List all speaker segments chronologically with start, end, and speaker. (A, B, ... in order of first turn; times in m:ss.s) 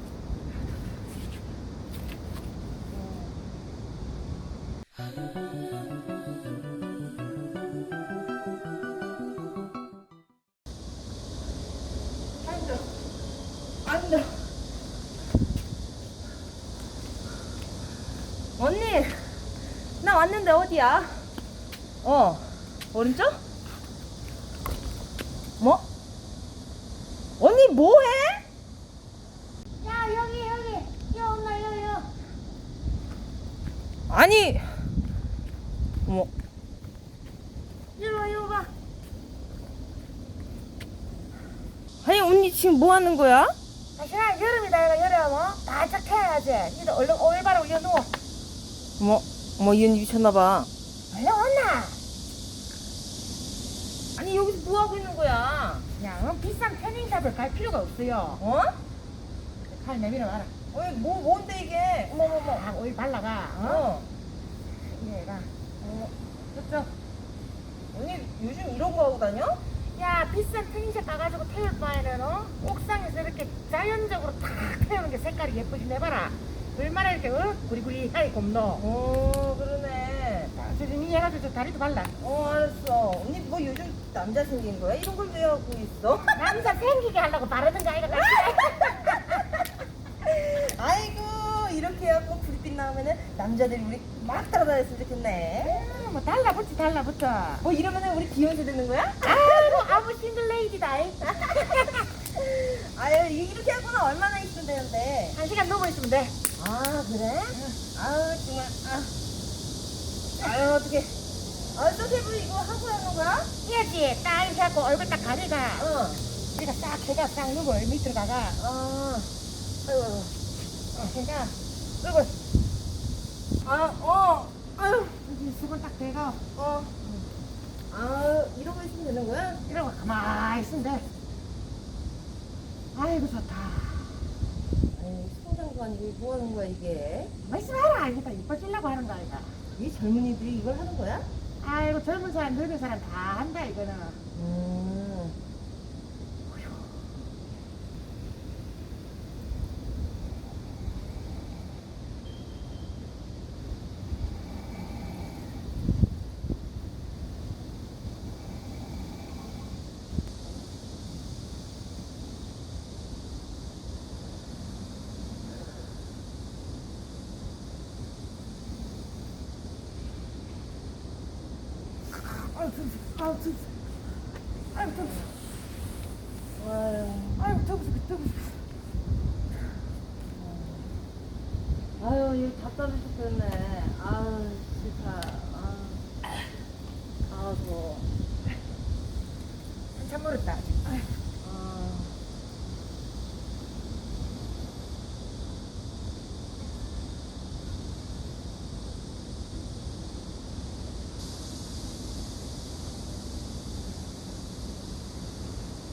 0:02.9-0:03.3 A
0:12.4-0:12.9 A
0:13.8-0:14.4 A
0:18.6-0:19.5 A
0:20.0-0:21.3 A
0:22.0-0:23.4 A
0:27.4-0:28.4 A
0:29.8-0:32.1 B
0:34.1-0:34.8 A
0:38.0-0:38.7 B
0:42.0-0:43.6 A
0:44.0-0:48.1 B
0:49.0-0:50.7 A
0:51.1-0:52.0 B
0:54.2-0:55.9 A
0:56.0-0:58.4 B
0:58.4-0:58.8 A
0:59.7-1:00.5 B
1:00.7-1:02.7 A
1:02.5-1:03.9 B
1:03.6-1:04.1 A
1:04.8-1:05.5 B
1:05.8-1:06.1 A
1:06.5-1:06.9 B
1:07.9-1:09.6 A
1:09.9-1:18.8 B
1:18.8-1:20.5 A
1:20.6-1:22.1 B
1:22.2-1:26.5 A
1:26.3-1:29.4 B
1:28.1-1:29.4 A
1:30.2-1:35.9 A
1:35.6-1:37.6 B
1:37.6-1:40.0 A
1:39.2-1:42.1 B
1:41.3-1:41.7 A
1:42.3-1:45.4 A
1:45.4-1:46.4 B
1:46.6-1:49.1 A
1:50.4-1:51.2 A
1:51.7-1:53.5 A
1:53.6-1:55.9 B
1:55.8-1:56.2 A
1:56.5-1:58.6 B
1:58.6-1:59.3 A
1:59.9-2:00.3 A
2:00.9-2:02.3 B
2:03.6-2:05.2 A
2:05.2-2:06.5 B
2:06.6-2:07.2 A
2:07.9-2:09.6 A
2:09.7-2:11.1 B
2:12.9-2:14.2 B
2:14.9-2:17.3 A
2:17.4-2:19.6 B
2:19.8-2:21.3 A
2:21.6-2:24.2 B
2:24.3-2:25.4 A
2:52.2-2:53.7 B
2:54.7-2:55.2 B
2:54.8-2:55.3 A
2:56.6-2:57.6 A
2:57.4-2:58.5 B
3:00.4-3:00.9 A
3:02.0-3:06.1 A
3:07.3-3:08.1 A
3:10.0-3:11.1 B
3:11.4-3:12.2 A